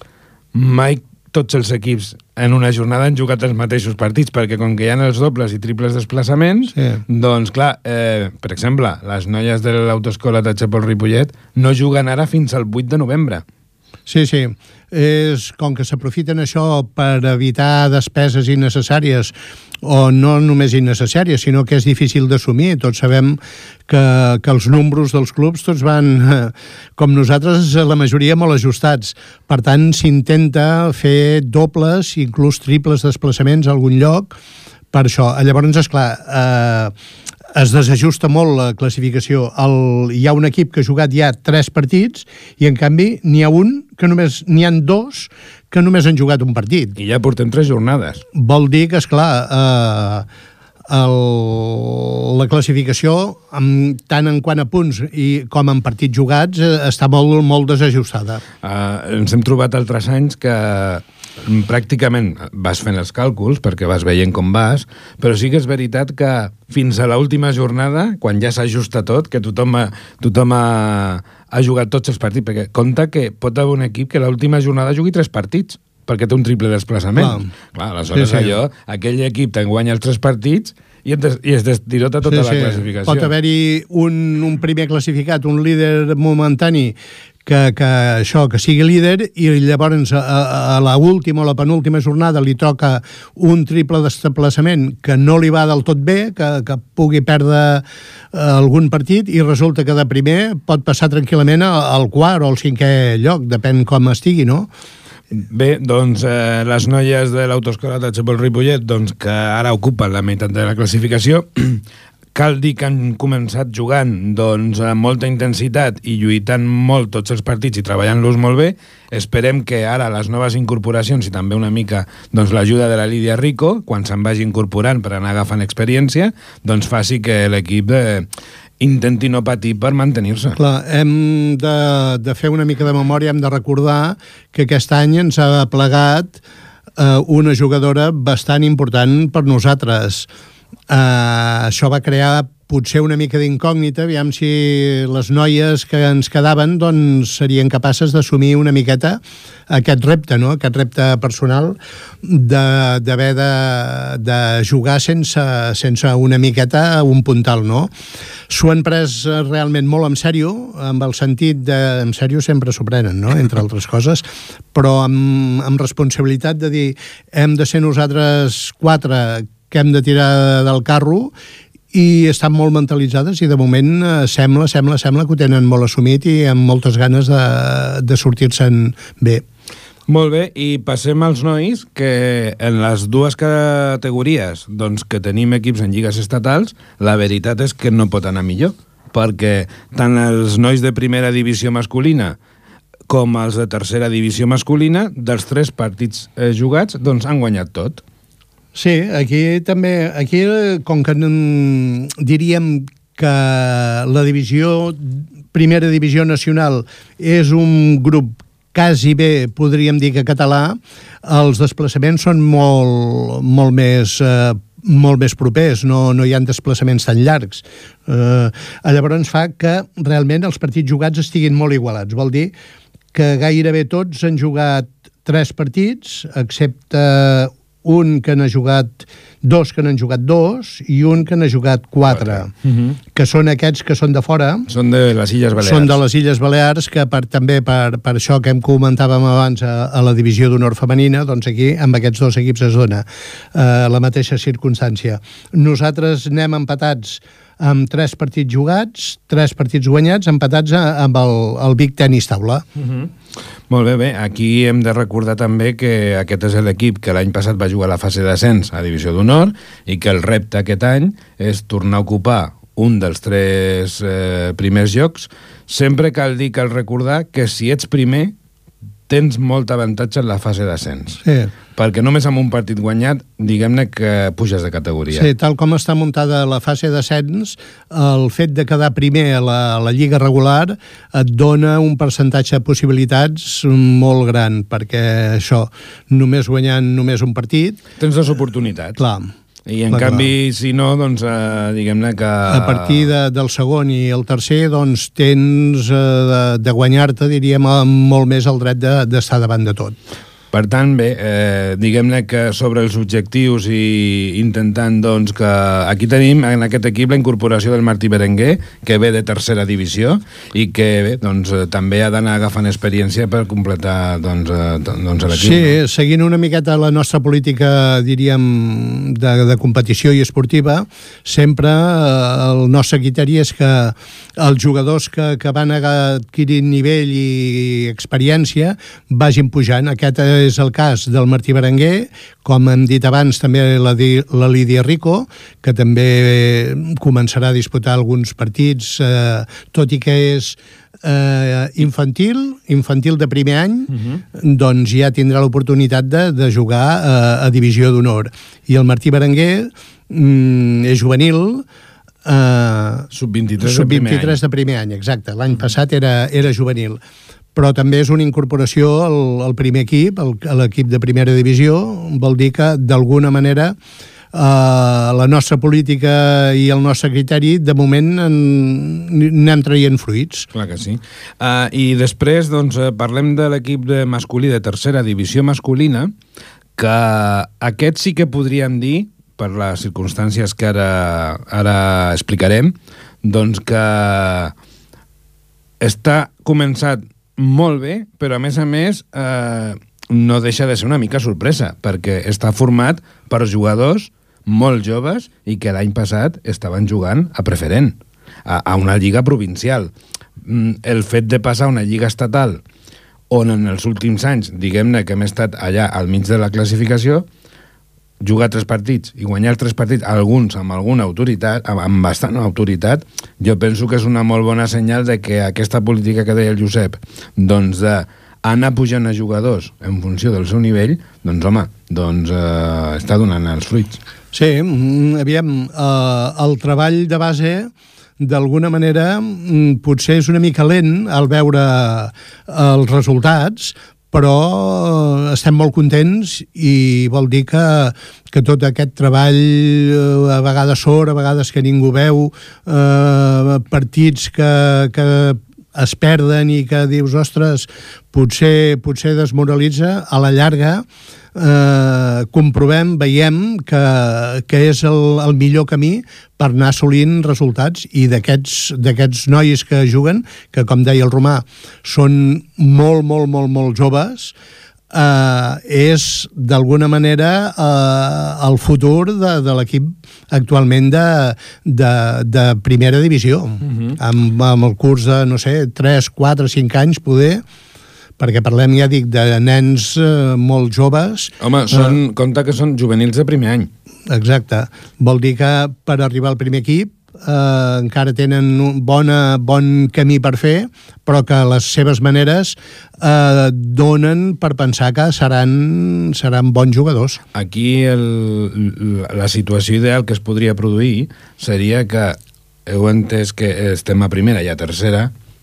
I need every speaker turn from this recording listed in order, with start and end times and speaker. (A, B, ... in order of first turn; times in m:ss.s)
0:00.5-0:13.4 A
0:06.8-0:07.0 B
0:14.1-0:34.4 B
0:34.9-0:36.9 B
0:37.6-0:47.0 B
0:47.0-0:48.2 A
0:48.4-0:50.3 B
0:50.9-0:58.4 B
0:58.6-1:23.3 A
1:17.2-1:17.5 B
1:18.1-1:18.5 B
1:22.3-1:44.7 B
1:45.4-1:51.8 A
1:52.3-2:08.3 A
2:08.8-2:10.6 A
2:10.6-2:16.4 B
2:17.0-2:20.3 B
2:20.9-2:37.9 B
2:38.5-2:51.3 B
2:51.9-2:59.4 B
3:00.1-3:12.4 A
3:13.1-3:18.0 A
3:18.8-3:42.5 B
3:43.1-3:52.5 B
3:52.1-3:53.0 A
3:53.1-3:54.7 B
3:54.7-3:56.0 A
3:55.6-4:12.6 B
4:12.8-4:13.1 A
4:13.7-4:28.4 A
4:29.1-4:31.2 A
4:31.2-4:31.5 B
4:31.8-4:35.3 A
4:35.1-4:47.8 B
4:48.0-4:49.0 A
4:49.0-4:49.3 B
4:49.7-4:53.1 A
4:49.9-4:50.3 B
4:52.5-5:00.0 B
5:00.5-5:15.7 A
5:15.4-5:51.6 B
5:52.2-5:57.0 B
5:53.1-5:54.4 A
5:57.6-6:03.8 B
6:04.3-6:10.5 B
6:10.5-6:16.1 A
6:16.8-6:24.5 A
6:25.8-6:42.6 A
6:43.3-6:47.3 A
6:48.2-7:04.0 A
7:04.3-7:44.3 B
7:44.9-7:57.4 B
7:53.6-7:54.0 A
7:58.2-8:02.0 B
8:01.4-8:03.7 A
8:04.1-8:17.2 B
8:17.3-8:25.1 A